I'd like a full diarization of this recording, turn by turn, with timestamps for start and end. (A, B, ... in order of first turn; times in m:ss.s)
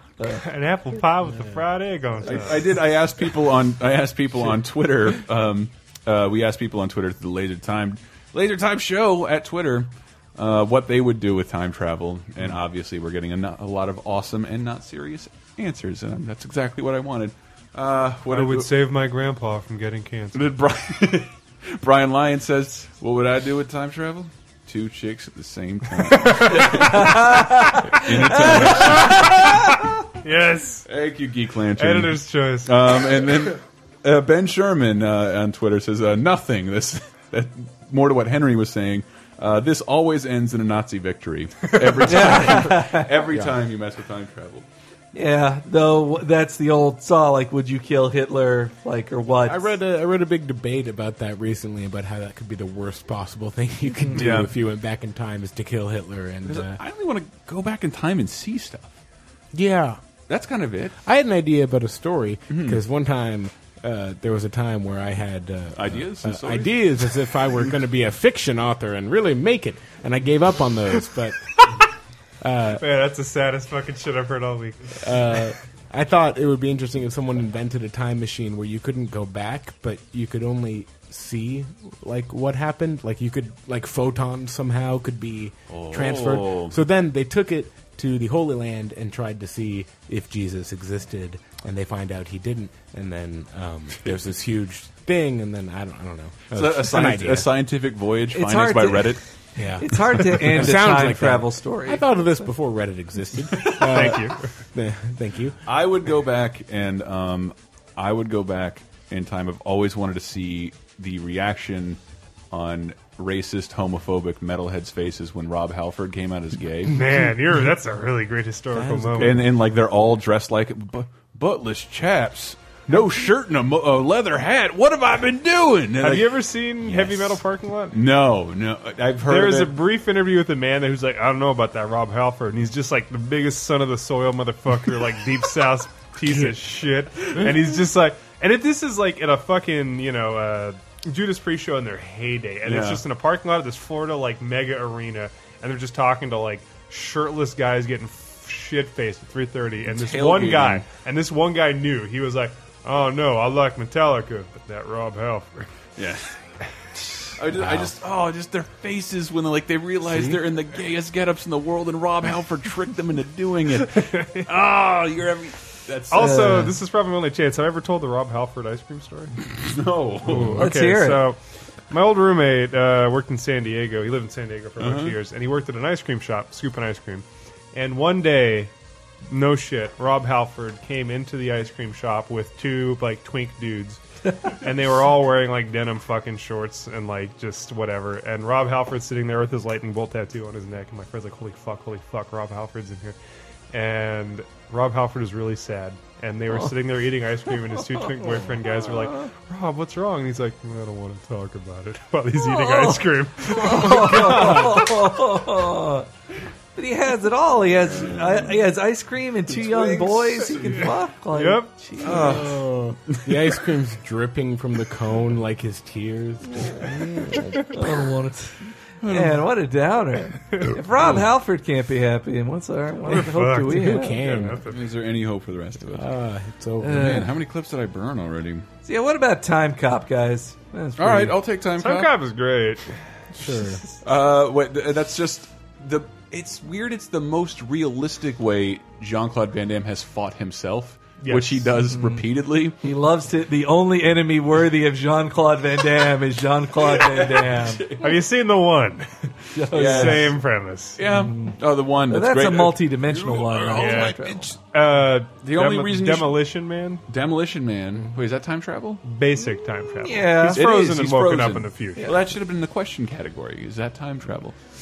0:00.2-0:00.4 A
0:00.4-0:02.7 B
0:02.2-0:18.7 C
0:18.3-0:20.4 B
0:20.3-0:29.4 C
0:26.1-0:27.0 B
0:26.8-0:29.5 A
0:28.4-0:29.3 B
0:30.2-0:30.8 B
0:30.9-0:44.6 C
0:31.8-0:33.0 B
0:42.0-0:43.1 A
0:45.1-0:49.7 A
0:49.4-0:56.8 D
0:54.1-0:54.5 C
0:56.4-0:58.9 C
0:59.5-1:00.0 D
1:00.3-1:01.0 C
1:01.0-1:11.5 D
1:02.5-1:02.8 C
1:05.7-1:07.1 C
1:12.4-1:12.8 D
1:12.8-1:15.0 B
1:15.0-1:37.5 D
1:25.7-1:26.8 C
1:36.5-1:39.2 C
1:38.3-1:42.1 A
1:39.6-1:45.6 D
1:43.6-1:44.0 C
1:43.8-1:44.5 B
1:45.6-1:52.0 C
1:52.5-1:57.1 C
1:56.9-1:59.4 B
1:58.7-1:59.4 D
1:59.2-2:07.4 C
2:06.0-2:08.0 B
2:07.9-2:09.8 C
2:09.2-2:35.7 B
2:22.6-2:23.0 C
2:29.8-2:30.8 C
2:36.0-2:36.4 C
2:37.1-2:46.6 C
2:37.5-2:37.9 D
2:40.1-2:40.4 D
2:44.0-2:44.4 B
2:46.1-2:49.3 B
2:46.1-2:46.7 A
2:49.6-2:50.7 C
2:50.2-2:58.7 B
2:50.6-2:51.2 A
2:54.8-2:55.2 C
2:59.3-3:13.2 B
3:13.7-3:24.7 B
3:22.4-3:26.1 A
3:26.8-3:32.4 A
3:29.5-3:30.9 C
3:30.8-3:31.7 B
3:32.0-3:33.5 C
3:32.0-3:37.7 D
3:37.7-3:44.3 A
3:39.0-3:39.4 C
3:43.1-3:44.8 B
3:43.7-3:44.6 D
3:44.7-3:46.1 C
3:45.9-3:47.2 D
3:46.8-3:47.3 A
3:46.9-3:48.6 C
3:48.8-3:51.4 A
3:51.0-3:52.1 C
3:51.8-3:52.8 B
3:53.4-3:53.8 D
3:54.0-4:02.8 C
4:01.2-4:01.6 B
4:01.8-4:02.2 A
4:02.8-4:07.8 A
4:06.9-4:08.2 C
4:08.0-4:09.1 B
4:09.5-4:10.4 A
4:09.7-4:11.0 B
4:09.7-4:10.4 C
4:11.0-4:14.5 C
4:11.1-4:11.6 A
4:12.1-4:14.5 A
4:13.7-4:17.0 B
4:15.4-4:16.4 C
4:17.1-4:19.0 C
4:19.0-4:22.1 B
4:20.0-4:20.6 A
4:20.5-4:24.6 C